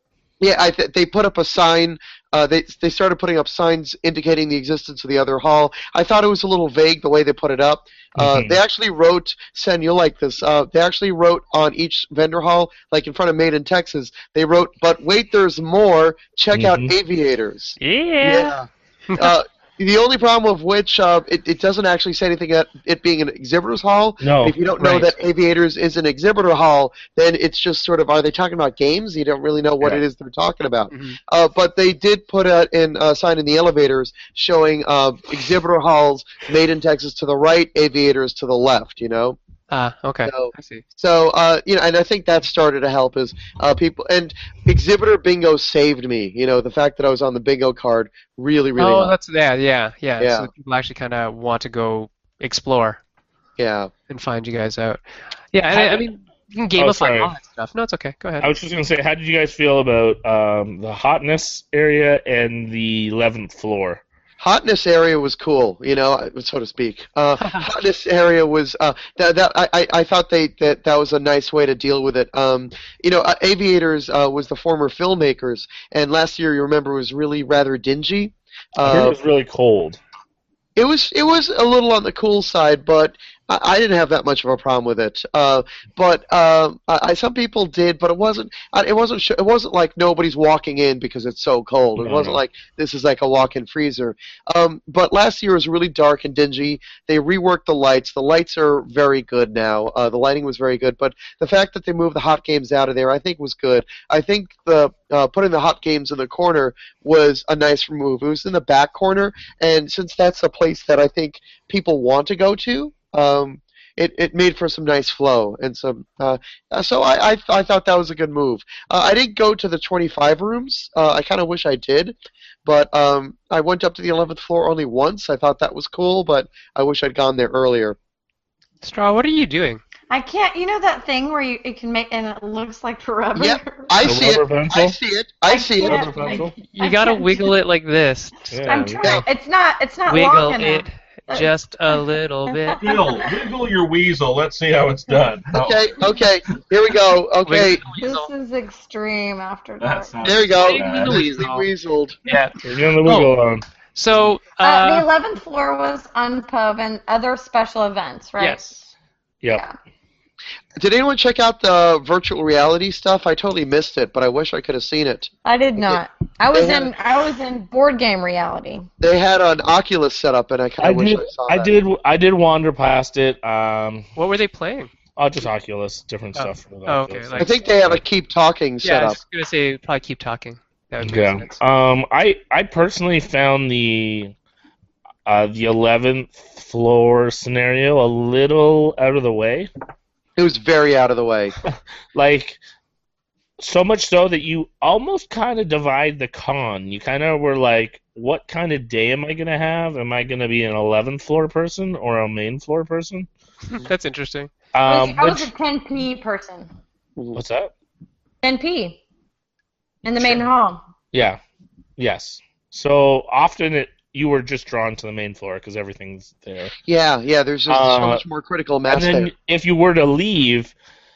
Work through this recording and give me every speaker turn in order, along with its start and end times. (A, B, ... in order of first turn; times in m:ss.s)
0:00.4-0:39.4 A
0:08.2-0:08.6 B
0:16.5-0:16.9 B
0:17.8-0:18.5 C
0:24.2-0:25.1 B
0:30.9-0:31.2 C
0:39.7-0:40.8 C
0:40.2-0:49.1 A
0:48.8-0:53.0 C
0:50.2-0:50.5 A
0:53.6-0:53.9 A
0:54.1-0:58.5 C
0:55.7-0:56.0 A
0:56.8-0:57.3 B
0:58.4-1:04.0 B
1:04.4-1:19.1 A
1:07.4-1:07.7 C
1:18.8-1:20.0 B
1:20.8-2:08.0 A
1:32.0-1:32.4 B
2:08.8-2:09.8 C
2:10.1-2:14.0 D
2:13.3-2:16.4 A
2:14.0-2:15.0 B
2:15.5-2:17.5 D
2:15.8-2:16.5 B
2:16.6-2:19.1 C
2:18.5-2:19.2 B
2:18.7-2:23.4 D
2:20.1-2:22.9 C
2:22.8-2:26.0 E
2:25.5-2:27.8 A
2:27.4-2:28.3 C
2:28.0-2:30.1 D
2:29.8-2:31.4 E
2:30.2-2:32.2 A
2:30.6-2:31.7 C
2:32.2-2:33.3 C
2:32.6-2:33.6 B
2:33.9-2:35.1 C
2:34.6-2:38.8 D
2:38.4-2:38.7 C
2:40.8-2:46.0 A
2:45.4-2:48.9 D
2:46.5-2:46.9 A
2:49.0-2:51.7 A
2:50.8-2:54.1 B
2:54.2-2:54.9 C
2:55.2-2:58.0 B
2:56.3-2:57.6 C
2:57.4-2:59.2 A
2:58.8-3:01.6 C
3:01.0-3:04.3 B
3:05.2-3:09.7 B
3:10.4-3:11.5 A
3:11.6-3:12.6 B
3:13.6-3:23.3 B
3:23.7-3:24.5 C
3:24.7-3:25.5 B
3:24.8-3:26.7 D
3:27.3-3:27.7 B
3:28.4-3:29.0 D
3:30.0-3:30.8 D
3:31.1-3:31.4 B
3:32.0-3:36.7 B
3:36.8-3:39.3 A
3:37.7-3:38.2 B
3:38.9-3:40.7 B